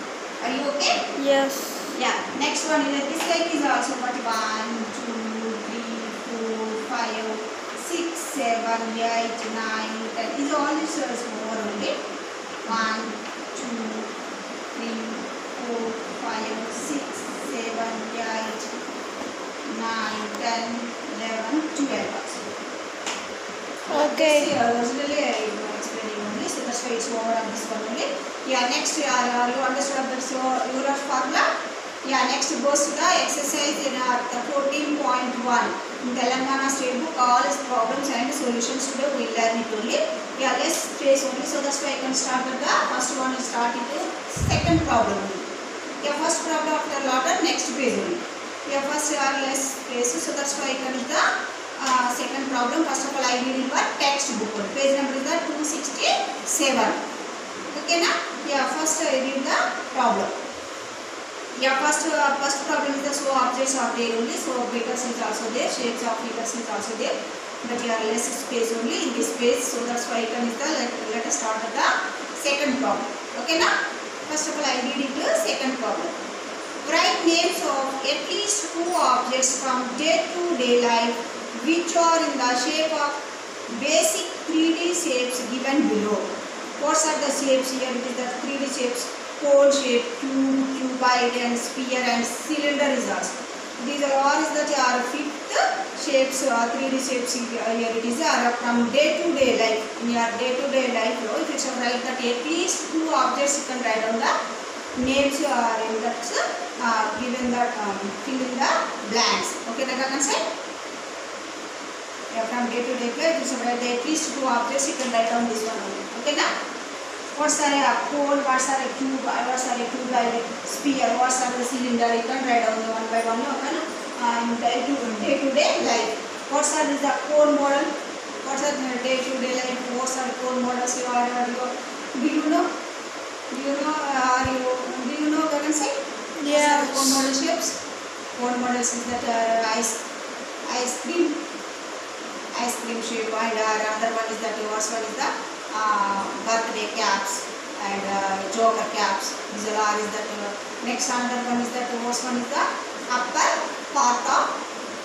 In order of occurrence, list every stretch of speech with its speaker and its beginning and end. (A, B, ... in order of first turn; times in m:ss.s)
0:00.4-0:01.1 A
0:01.1-0:01.9 B
0:01.9-0:12.0 A
0:12.6-0:14.1 A
0:14.7-0:18.7 A
0:19.7-0:22.5 A
0:23.9-0:31.4 A
0:23.9-0:24.5 B
0:32.0-0:45.5 A
0:46.0-0:57.0 A
0:57.7-1:00.3 A
1:01.6-1:13.7 A
1:14.2-1:16.2 A
1:16.8-1:44.3 A
1:45.0-1:50.4 A
1:52.3-1:56.5 A
1:57.3-2:07.9 A
2:08.4-2:12.7 A
2:13.5-2:17.8 A
2:16.4-2:17.2 B
2:18.4-2:20.0 A
2:20.6-2:21.4 A
2:22.5-2:34.5 A